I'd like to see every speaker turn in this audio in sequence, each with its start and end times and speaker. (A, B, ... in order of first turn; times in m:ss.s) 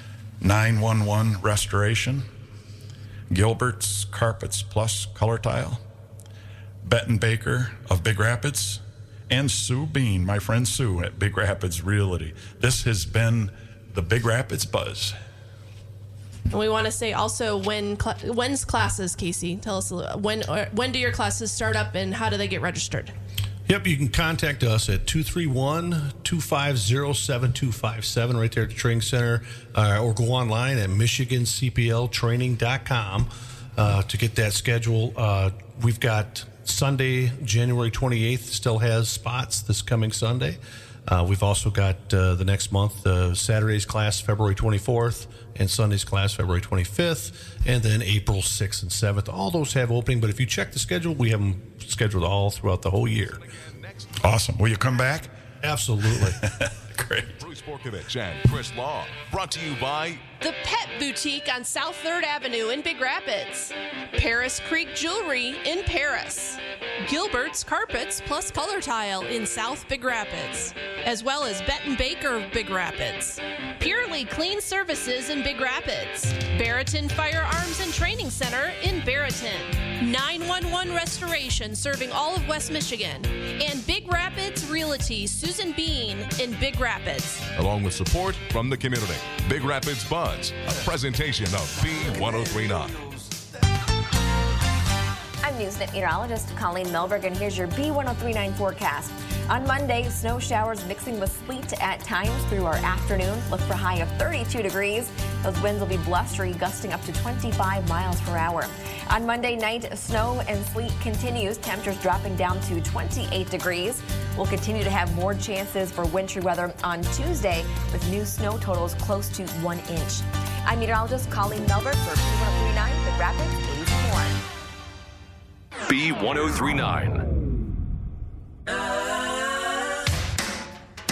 0:00.4-0:02.3 A
0:03.3-0:05.8 A
0:06.8-0:15.2 A
0:16.5-0:23.1 B
0:23.7-0:53.4 C
0:53.1-0:54.2 D
0:54.2-0:55.3 A
0:55.6-0:56.4 C
0:56.1-0:57.4 A
0:57.3-1:00.2 D
1:00.4-1:27.4 B
1:27.5-1:33.3 D
1:35.4-2:04.4 E
2:05.9-2:07.2 D